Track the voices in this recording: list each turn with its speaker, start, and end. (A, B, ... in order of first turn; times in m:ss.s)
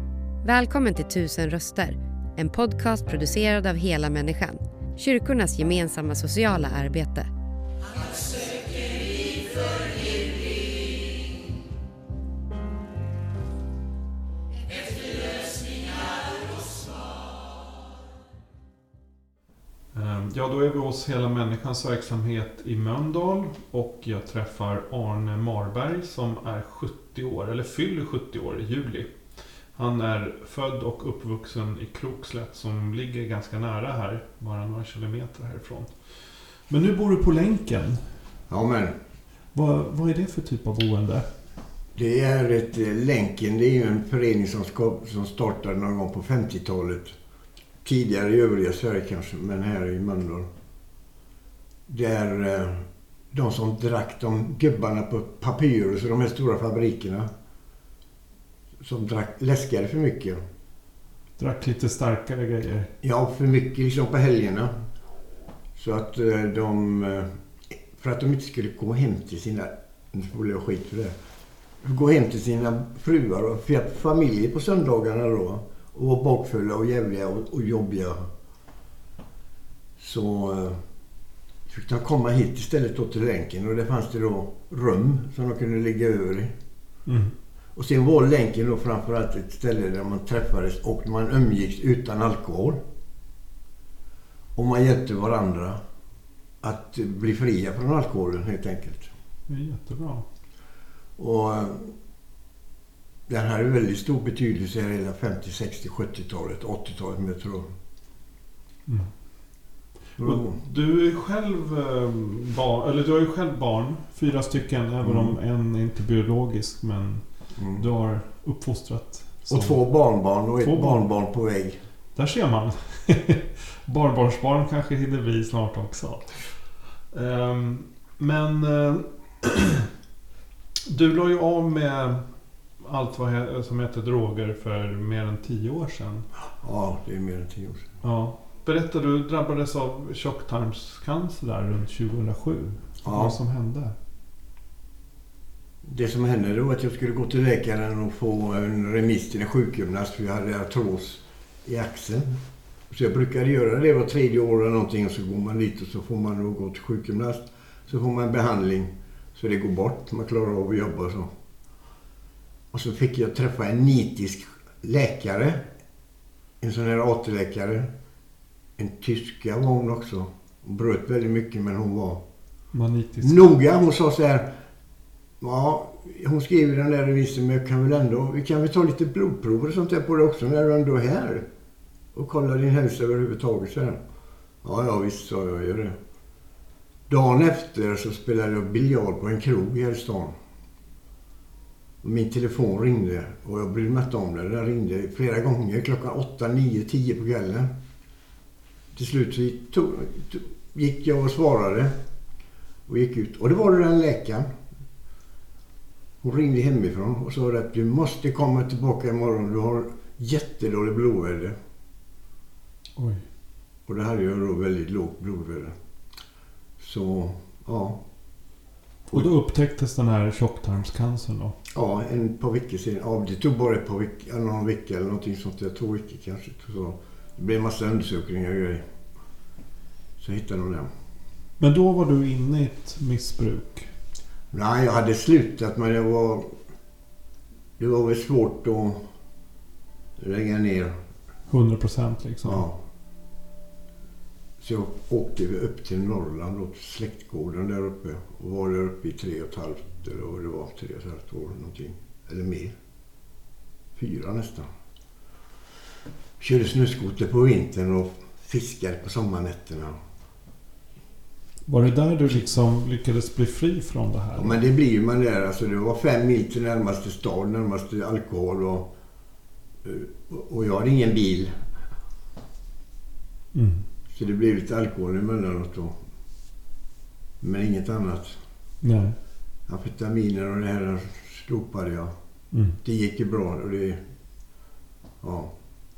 0:00.4-0:07.3 A
0:19.9-0:38.1 B
0:38.5-0:39.0 C
0:39.5-0:41.3 B
0:42.0-0:47.1 C
0:47.8-0:50.5 C
0:51.9-0:57.3 C
0:58.8-1:00.4 C
1:01.4-1:02.9 B
1:03.0-1:04.7 C
1:05.8-1:07.3 C
1:07.9-1:11.1 C
1:11.8-1:18.3 C
1:20.0-1:20.8 C
1:21.7-1:26.5 C
1:27.1-1:27.3 B
1:27.8-1:32.8 C
1:34.6-1:35.8 C
1:36.6-1:39.1 C
1:39.5-1:40.3 B
1:41.2-1:41.9 C
1:43.3-1:47.7 C
1:48.9-1:49.1 B
1:50.2-1:50.6 C
1:50.2-1:59.8 B
1:55.0-1:55.4 C
1:57.6-1:57.8 C
1:59.5-2:01.8 C
2:00.6-2:01.0 B
2:02.2-2:09.9 B
2:10.9-2:12.2 B
2:12.8-2:16.3 B
2:16.6-2:17.9 C
2:18.0-2:24.0 B
2:23.0-2:23.4 C
2:25.8-2:32.4 C
2:32.9-2:41.3 C
2:42.7-2:45.7 C
2:46.6-2:47.9 C
2:48.8-2:52.2 C
2:52.7-2:53.5 B
2:53.2-2:54.5 C
2:55.4-3:01.4 C
3:02.1-3:04.0 C
3:04.6-3:06.0 C
3:07.1-3:10.4 C
3:12.0-3:17.7 C
3:19.0-3:21.9 C
3:22.9-3:24.5 C
3:26.2-3:31.6 C
3:33.0-3:33.2 B
3:33.9-3:35.7 C
3:36.8-3:38.0 C
3:39.1-3:41.6 B
3:41.7-3:48.8 C
3:50.2-3:50.9 C
3:51.6-3:53.9 B
3:54.5-3:56.5 C
3:57.8-3:59.0 C
4:00.2-4:01.0 C
4:01.5-4:02.7 B
4:02.4-4:02.8 C
4:04.6-4:12.7 C
4:14.0-4:14.7 C
4:16.4-4:20.0 C
4:21.7-4:24.6 B
4:24.4-4:28.9 C
4:29.8-4:31.5 C
4:33.5-4:33.8 B
4:34.1-4:36.0 C
4:37.4-4:38.4 C
4:38.8-4:39.2 B
4:39.7-4:42.1 C
4:42.5-4:42.8 B
4:42.8-4:44.0 C
4:45.2-4:45.5 C